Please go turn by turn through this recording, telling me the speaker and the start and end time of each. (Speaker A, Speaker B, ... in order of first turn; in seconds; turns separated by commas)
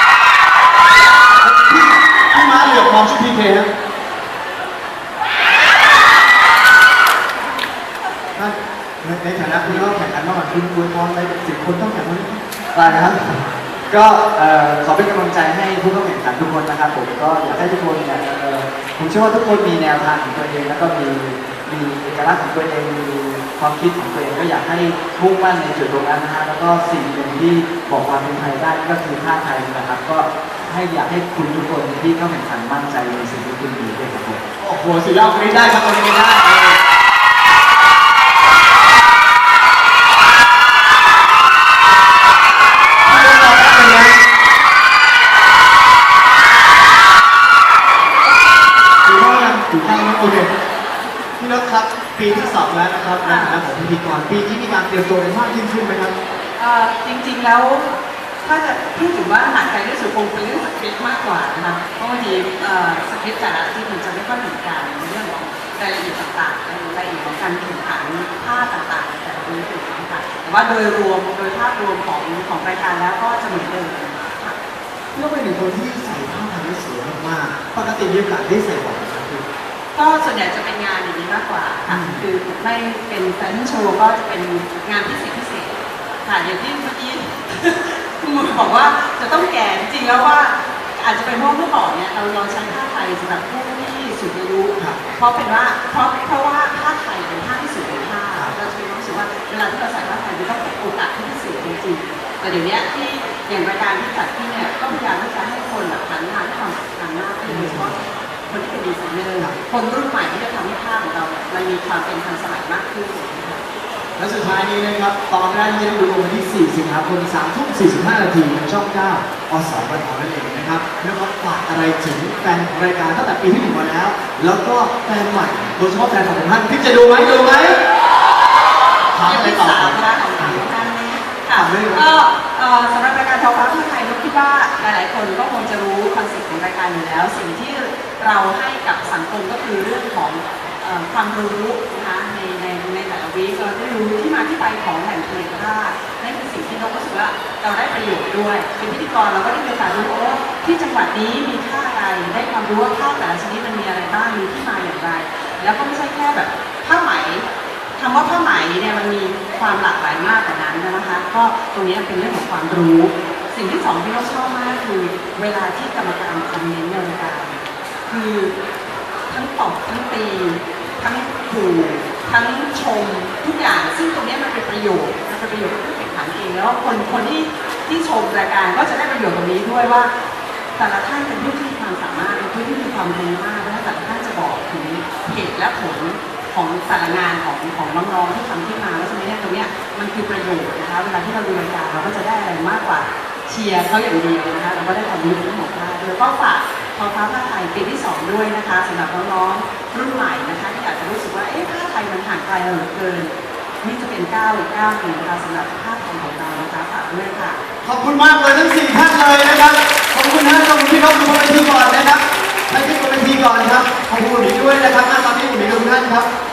Speaker A: 1.4-3.7, Speaker A: 8.3-13.0, Speaker B: 9.6-10.0, Speaker B: 12.7-34.4, Speaker A: 34.6-36.8, Speaker A: 43.0-44.2, Speaker A: 49.0-50.5, Speaker A: 51.4-56.1, Speaker C: 53.2-53.6, Speaker C: 56.6-74.6, Speaker A: 75.1-79.4, Speaker C: 79.9-113.6, Speaker A: 81.9-82.3, Speaker A: 107.4-107.9, Speaker A: 114.2-127.8, Speaker A: 129.1-130.6, Speaker C: 129.2-168.5, Speaker A: 131.5-132.1, Speaker C: 169.3-180.1, Speaker C: 180.8-207.6, Speaker A: 207.8-216.3